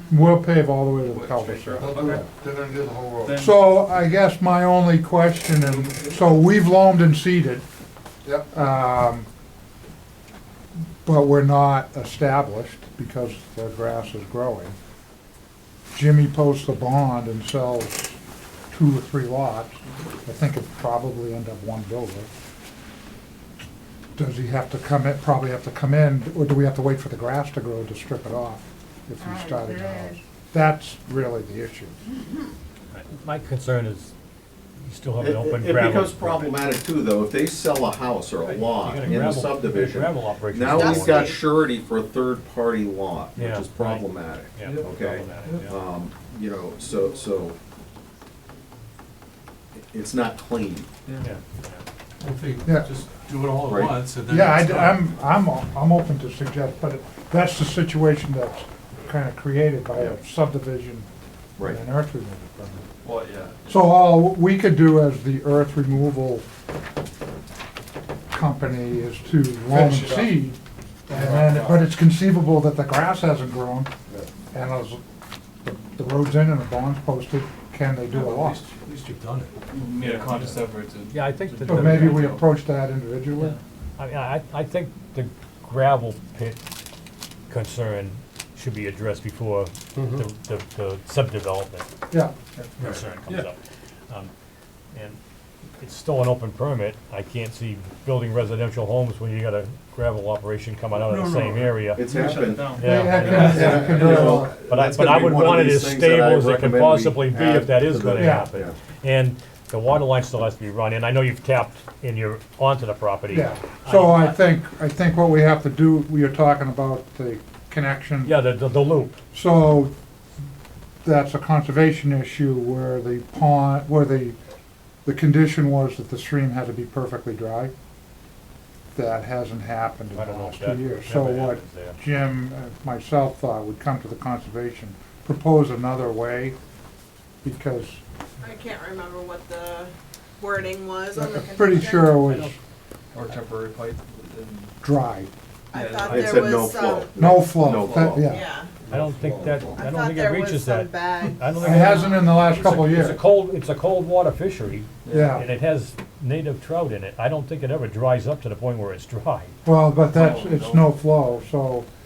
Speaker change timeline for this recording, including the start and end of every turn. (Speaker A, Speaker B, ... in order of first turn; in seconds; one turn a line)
Speaker A: 0.1-2.2
Speaker B: 1.0-2.3
Speaker C: 1.8-3.4
Speaker B: 3.2-3.7
Speaker A: 3.3-7.7
Speaker B: 5.6-6.0
Speaker A: 8.4-9.3
Speaker A: 11.0-14.8
Speaker A: 15.9-18.2
Speaker A: 18.7-22.3
Speaker A: 24.2-32.0
Speaker D: 29.5-30.1
Speaker E: 32.9-34.1
Speaker E: 34.9-36.6
Speaker F: 35.2-47.6
Speaker E: 38.4-41.3
Speaker D: 40.7-41.4
Speaker E: 43.4-45.8
Speaker B: 44.6-44.9
Speaker B: 45.4-45.7
Speaker F: 49.7-50.9
Speaker E: 51.2-51.8
Speaker G: 52.2-55.1
Speaker A: 52.6-52.9
Speaker F: 53.6-54.0
Speaker A: 54.3-61.1
Speaker A: 61.6-62.9
Speaker B: 63.0-63.6
Speaker A: 63.7-66.4
Speaker A: 68.3-73.9
Speaker C: 69.7-70.4
Speaker C: 71.1-71.8
Speaker A: 74.5-75.0
Speaker A: 75.6-78.7
Speaker G: 78.2-79.6
Speaker B: 79.7-82.4
Speaker E: 80.0-80.3
Speaker E: 81.1-82.4
Speaker A: 81.7-83.6
Speaker E: 84.0-86.6
Speaker E: 87.5-91.9
Speaker C: 90.0-90.2
Speaker B: 92.5-93.5
Speaker E: 92.8-93.5
Speaker E: 94.9-95.2
Speaker E: 95.8-102.1
Speaker B: 101.0-104.4
Speaker F: 102.0-108.8
Speaker E: 102.7-104.1
Speaker A: 102.8-104.5
Speaker E: 104.7-114.4
Speaker A: 108.2-108.5
Speaker A: 113.3-118.4
Speaker E: 118.2-119.2
Speaker A: 119.3-119.9
Speaker A: 121.0-124.4
Speaker A: 125.0-127.7
Speaker A: 128.9-136.6
Speaker E: 130.1-132.0
Speaker A: 137.4-138.0
Speaker D: 138.4-142.2
Speaker A: 141.1-142.6
Speaker E: 142.2-142.6
Speaker B: 143.1-144.7
Speaker A: 144.8-145.3
Speaker D: 145.7-147.2
Speaker B: 145.7-146.5
Speaker F: 146.1-148.3
Speaker A: 147.2-148.5
Speaker B: 147.6-148.2
Speaker D: 148.2-148.7
Speaker C: 148.8-149.8
Speaker E: 148.9-159.5
Speaker D: 149.7-152.5
Speaker A: 151.6-153.2
Speaker B: 155.1-155.4
Speaker A: 155.1-155.5
Speaker A: 159.7-161.9
Speaker B: 160.1-160.9